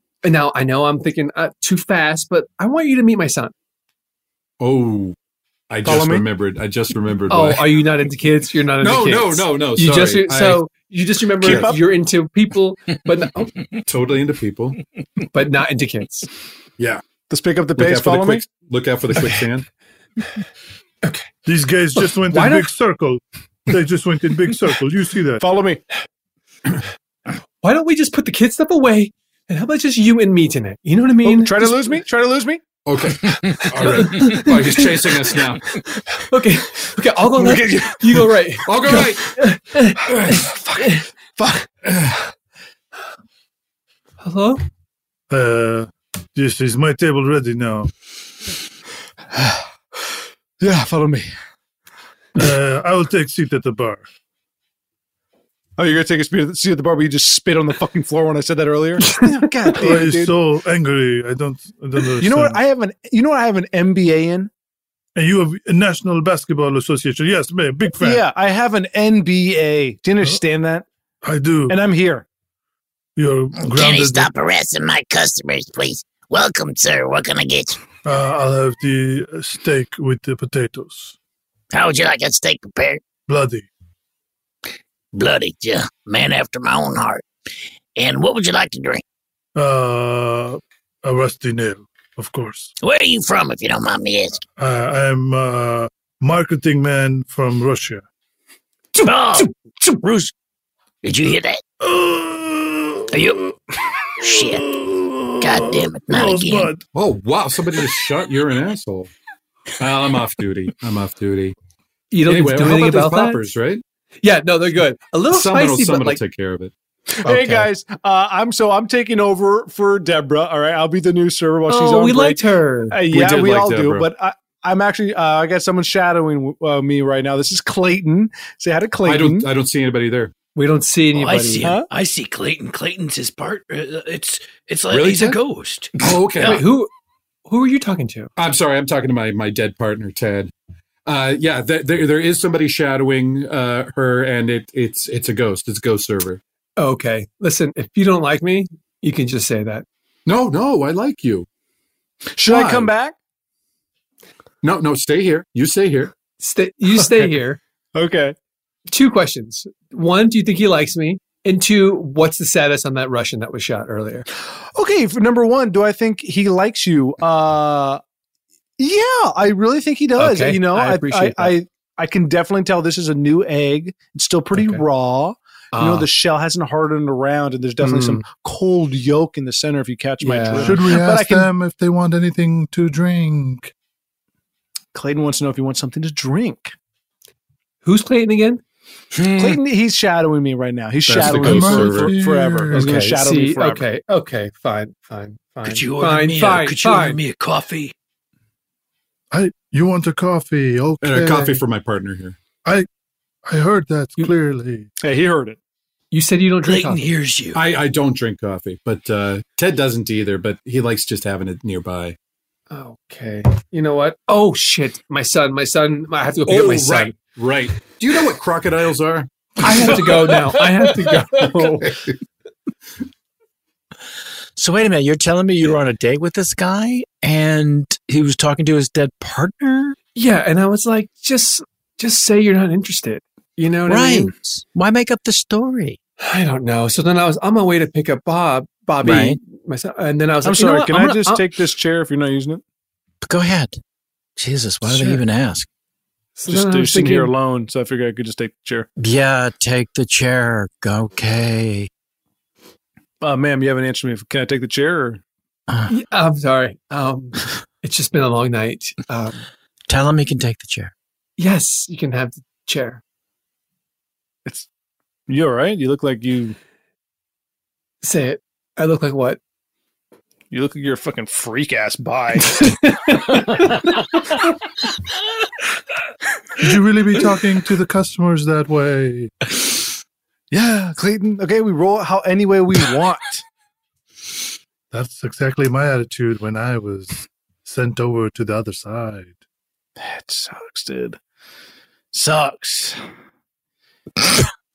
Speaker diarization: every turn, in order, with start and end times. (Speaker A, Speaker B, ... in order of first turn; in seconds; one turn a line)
Speaker A: 0.2-3.5
Speaker B: 4.6-5.1
Speaker B: 5.7-7.7
Speaker C: 5.8-6.2
Speaker A: 7.3-13.5
Speaker B: 8.8-10.6
Speaker B: 11.4-11.7
Speaker C: 11.4-11.8
Speaker B: 13.8-14.8
Speaker A: 15.3-16.3
Speaker C: 17.3-18.4
Speaker B: 17.8-19.6
Speaker D: 21.4-25.4
Speaker A: 21.9-22.7
Speaker C: 25.4-25.8
Speaker A: 27.6-32.0
Speaker C: 31.2-32.6
Speaker B: 32.9-35.6
Speaker A: 33.8-34.9
Speaker A: 36.3-41.0
Speaker C: 37.3-38.4
Speaker B: 38.6-39.3
Speaker C: 40.3-40.8
Speaker C: 41.4-41.6
Speaker B: 41.9-42.1
Speaker A: 44.2-44.6
Speaker D: 45.3-47.9
Speaker C: 49.3-49.6
Speaker C: 50.6-51.3
Speaker D: 52.4-54.0
Speaker C: 55.8-60.4
Speaker D: 59.8-62.6
Speaker C: 62.2-64.5
Speaker D: 65.2-68.2
Speaker C: 68.0-70.8
Speaker D: 71.2-71.8
Speaker C: 71.7-72.2
Speaker D: 73.2-74.3
Speaker E: 73.6-77.8
Speaker D: 78.0-81.2
Speaker E: 81.7-83.0
Speaker D: 83.3-83.7
Speaker E: 85.1-87.2
Speaker E: 88.0-89.0
Speaker D: 89.5-92.7
Speaker E: 92.8-94.4
Speaker D: 94.6-98.0
Speaker E: 99.0-99.4
Speaker F: 99.8-100.3
Speaker E: 101.0-101.6
Speaker D: 101.8-103.2
Speaker E: 103.1-103.4
Speaker E: 104.2-104.7
Speaker D: 104.2-106.8
Speaker E: 105.4-106.7
Speaker B: 106.9-109.1
Speaker B: 109.8-111.5
Speaker A: 112.1-113.4
Speaker B: 112.2-113.8
Speaker A: 114.2-116.2
Speaker B: 115.3-116.7
Speaker A: 117.2-117.7
Speaker C: 117.2-129.5
Speaker A: 121.7-123.0
Speaker B: 123.1-124.1
Speaker B: 129.0-130.3
Speaker A: 130.5-131.8
Speaker G: 131.1-136.0
Speaker C: 131.6-131.8
Speaker B: 134.9-135.3
Speaker B: 136.0-136.6
Speaker A: 136.3-136.9
Speaker A: 137.5-138.3
Speaker B: 138.4-140.5
Speaker B: 141.1-146.4
Speaker A: 146.8-149.8
Speaker B: 150.2-151.4
Speaker C: 152.3-153.1
Speaker B: 152.5-152.9
Speaker B: 154.6-156.1
Speaker A: 156.4-157.6
Speaker C: 157.0-157.3
Speaker C: 157.9-158.3
Speaker A: 158.9-164.2
Speaker C: 164.6-168.0
Speaker C: 168.8-181.5
Speaker A: 170.2-171.6
Speaker A: 174.5-174.8
Speaker A: 175.7-176.1
Speaker A: 177.8-178.2
Speaker A: 180.2-180.9
Speaker D: 180.6-183.7
Speaker C: 184.9-186.7
Speaker A: 187.8-188.6
Speaker F: 189.1-189.6
Speaker C: 189.3-193.8
Speaker B: 191.1-192.1
Speaker D: 191.1-193.0
Speaker A: 192.7-197.2
Speaker G: 195.6-197.9
Speaker D: 199.3-201.6
Speaker B: 201.0-202.4
Speaker D: 203.5-204.9
Speaker C: 205.0-205.6
Speaker A: 206.1-207.1
Speaker G: 206.6-207.6
Speaker B: 207.5-212.2
Speaker A: 212.7-217.2
Speaker B: 216.5-220.4
Speaker A: 219.6-221.9
Speaker B: 221.3-222.1
Speaker F: 224.6-229.9
Speaker A: 230.1-234.3
Speaker F: 233.8-236.0
Speaker A: 236.2-241.5
Speaker F: 239.0-239.4
Speaker C: 240.4-242.6
Speaker F: 243.2-243.8
Speaker F: 244.4-245.7
Speaker A: 244.9-245.2
Speaker A: 246.3-247.3
Speaker C: 246.5-248.9
Speaker F: 249.0-251.9
Speaker C: 253.2-255.2
Speaker A: 255.9-259.4
Speaker F: 259.9-260.9
Speaker A: 261.4-263.0
Speaker C: 265.3-266.6
Speaker A: 268.0-269.4
Speaker C: 270.5-272.7
Speaker A: 272.6-273.7
Speaker D: 276.6-279.3
Speaker C: 280.5-283.4
Speaker D: 284.9-289.4
Speaker C: 290.0-291.2
Speaker C: 292.1-292.9
Speaker F: 292.5-292.9